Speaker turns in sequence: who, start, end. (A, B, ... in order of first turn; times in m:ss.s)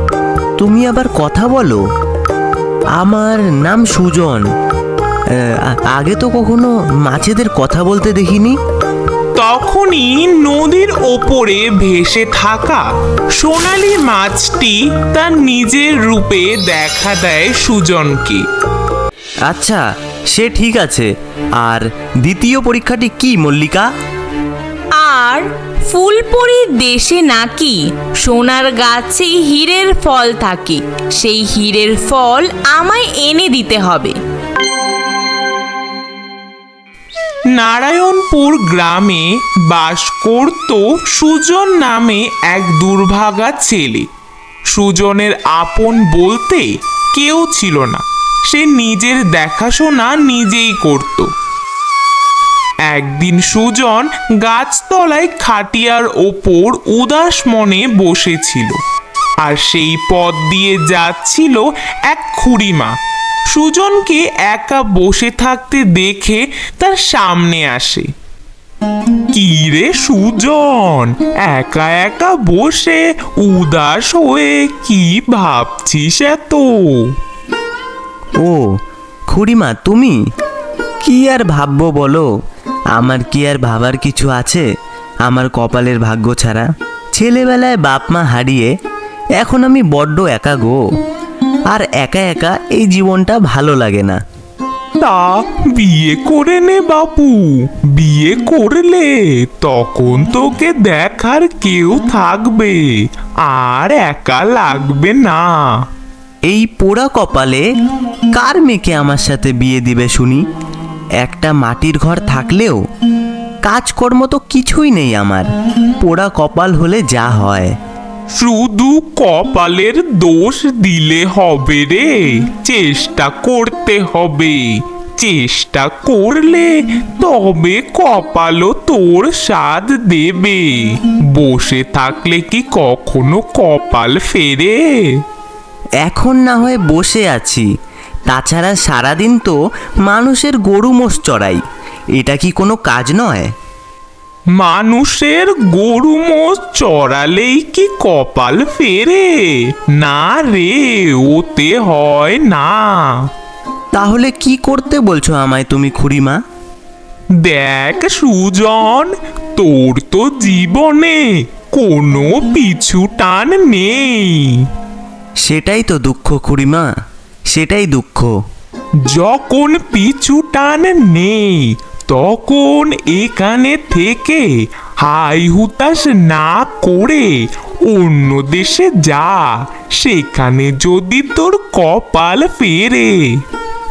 0:00.6-0:01.8 A
0:03.0-0:04.4 A
0:05.4-0:08.6 A
0:09.4-0:12.8 B
0:13.4-0:18.4 B
0:19.5-0:23.9 A
0:25.0-0:34.2 C
0:37.6-0:44.1 B
0:44.7-0:51.3 B
0:52.9-0:58.8 B
0:59.4-1:02.9 B
1:03.5-1:08.1 B
1:09.3-1:17.2 B
1:19.3-1:20.2 A
1:21.0-1:22.3 A
1:23.0-1:24.6 A
1:25.3-1:28.7 A
1:29.4-1:30.8 A
1:31.7-1:34.2 A
1:35.0-1:45.8 B
1:46.5-1:47.6 A
1:48.4-1:50.4 A
1:51.2-1:52.8 A
1:53.6-1:57.7 A
1:58.3-2:15.2 B
2:16.0-2:17.7 A
2:18.3-2:21.6 A
2:22.2-2:23.5 A
2:24.6-2:33.2 B
2:33.9-2:36.4 A
2:37.4-2:44.7 B
2:45.4-2:46.9 A
2:47.5-2:48.3 A
2:49.1-2:54.5 B
2:55.0-2:57.3 B
2:57.9-3:03.3 B